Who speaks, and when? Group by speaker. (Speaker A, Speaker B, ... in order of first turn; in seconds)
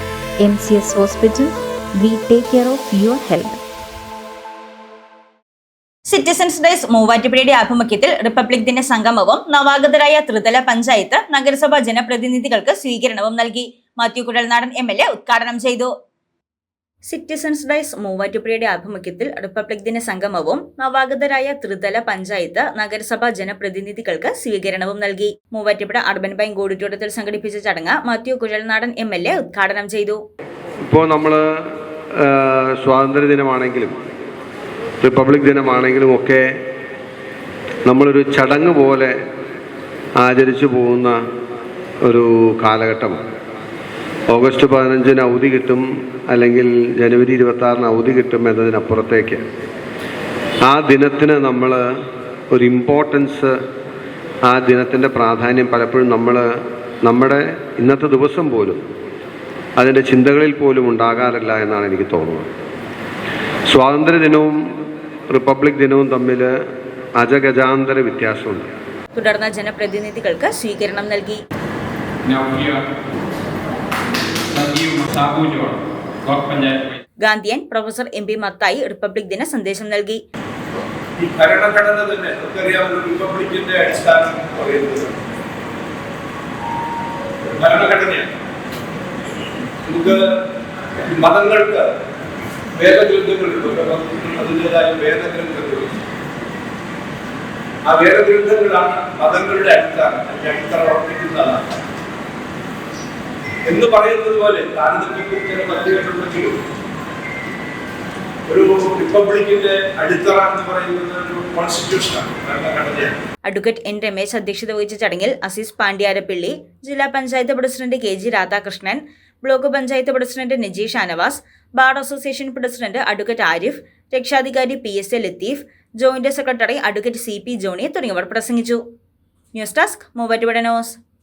Speaker A: 0.4-3.6
Speaker B: 6.1-15.9, 17.1-30.2, 69.1-71.4, 77.2-80.2, 113.5-128.8, 129.6-131.0
Speaker C: 30.9-31.5, 32.1-33.9, 35.0-36.5, 37.9-39.1, 40.2-41.2, 42.0-43.2, 44.3-49.4, 50.6-51.9, 52.5-53.6, 54.5-56.5, 57.0-58.8, 59.8-62.5, 63.7-64.7, 65.3-66.5, 67.2-68.7
Speaker D: 72.2-72.8, 74.5-77.0
Speaker E: 81.2-85.2, 87.6-88.3, 89.8-90.4, 91.1-91.9, 92.8-95.9, 97.8-101.7, 103.7-106.6, 108.5-113.2